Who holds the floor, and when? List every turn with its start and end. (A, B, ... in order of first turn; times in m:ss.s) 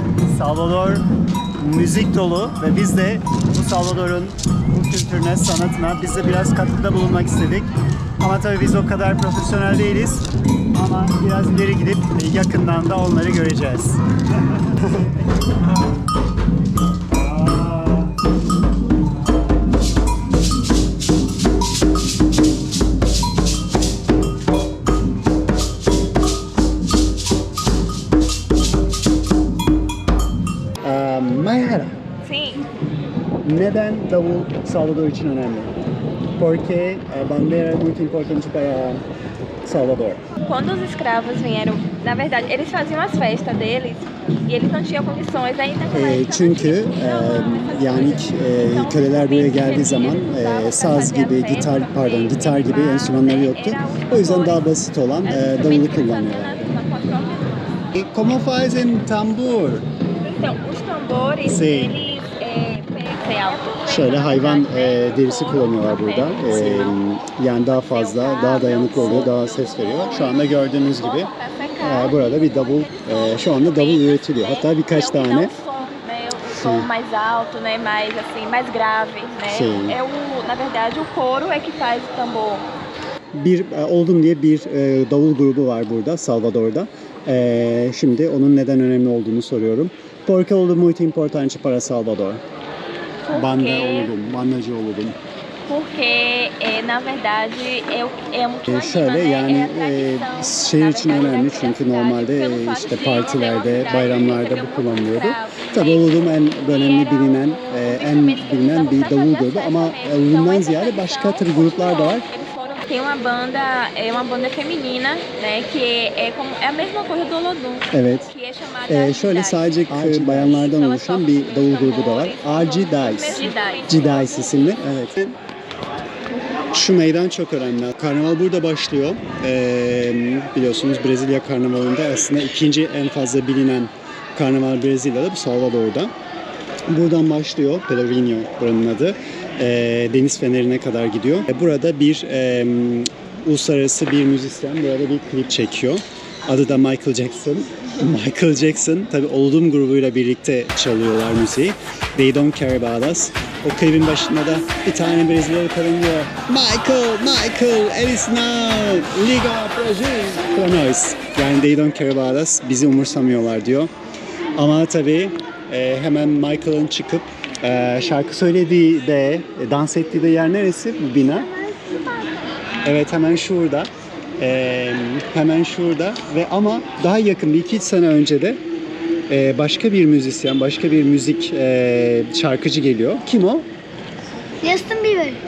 0:00.2-0:01.0 A
0:01.6-0:07.7 A
0:08.2-0:15.1 A
0:17.2-0:18.1 A
0:30.8-0:32.0 A
0:32.2-0:32.6 B
0:33.4-0:35.7 A
0:36.4-0:39.0 A
0:39.6-0:40.2 A
0:40.4-0:54.7 B
0:45.9-0:56.7 A
0:55.2-0:57.7 B
0:57.9-0:59.8 A
1:00.2-1:07.0 B
1:01.4-1:02.0 A
1:03.9-1:15.5 A
1:07.8-1:22.6 B
1:16.5-1:16.9 A
1:19.5-1:20.0 A
1:23.3-1:32.4 A
1:33.2-1:34.1 B
1:33.3-1:35.2 A
1:35.7-2:04.7 B
1:38.7-1:52.2 A
1:57.9-1:58.3 A
1:58.9-2:05.4 A
2:06.7-2:16.1 A
2:16.9-2:43.9 A
2:44.5-2:51.5 A
2:51.2-2:52.4 C
2:52.8-2:58.6 A
2:59.3-3:03.6 A
3:04.6-3:05.4 C